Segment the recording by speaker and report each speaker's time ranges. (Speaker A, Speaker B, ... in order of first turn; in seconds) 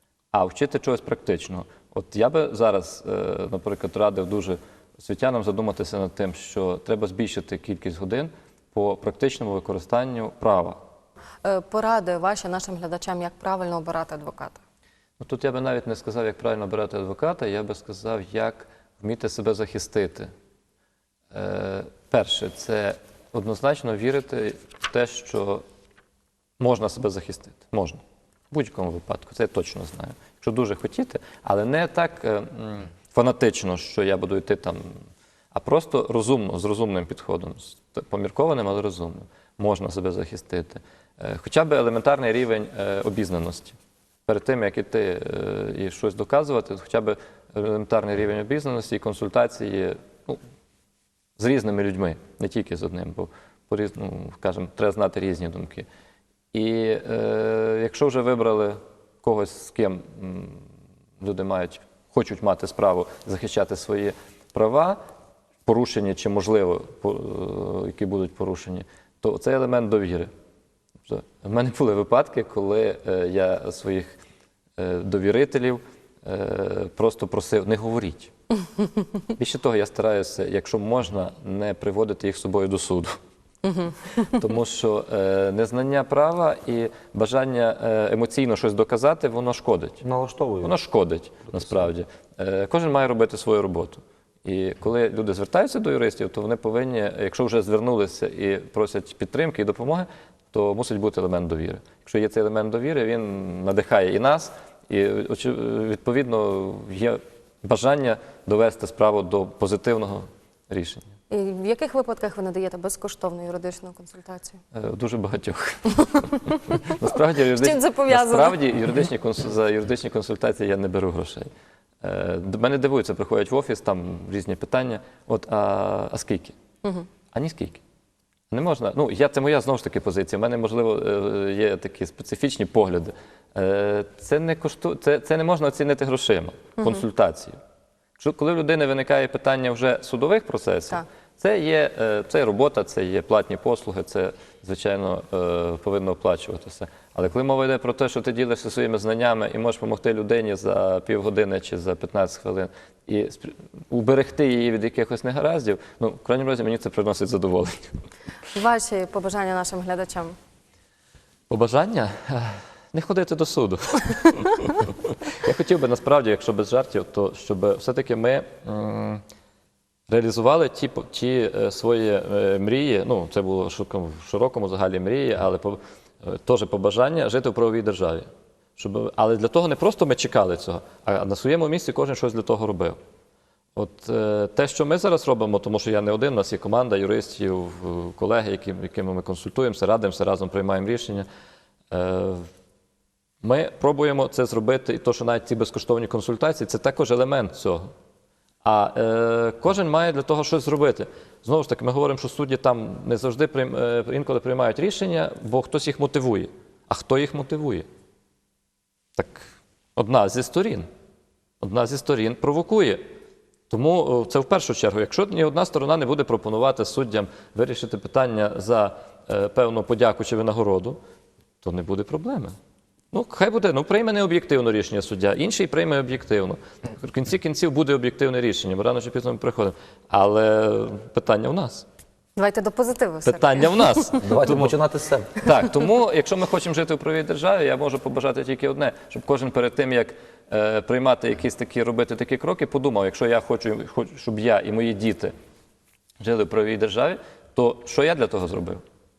Speaker A: 0.3-10.8, 15.2-20.3, 21.3-25.6, 26.6-28.0, 28.5-34.8, 35.5-43.8, 44.3-50.4, 51.4-55.9, 56.5-60.6, 61.2-65.0, 65.7-70.3, 71.0-74.2, 74.8-78.3, 79.3-83.2, 84.2-90.0, 90.6-111.1, 114.7-121.5, 122.0-126.5, 127.3-127.8, 128.5-137.6, 138.2-157.9, 161.5-169.2, 170.1-183.0, 183.8-191.3, 191.9-192.5, 193.4-197.9, 198.6-207.8, 209.2-210.9, 211.6-213.0, 213.7-221.0, 221.6-222.5, 223.1-231.8, 233.2-234.8, 235.4-245.3, 246.2-248.8
Speaker B: 11.4-14.6, 83.7-83.9, 111.3-114.6, 117.5-118.6, 158.5-160.3, 232.3-234.1
Speaker C: 90.0-90.7, 91.5-91.9, 234.2-235.4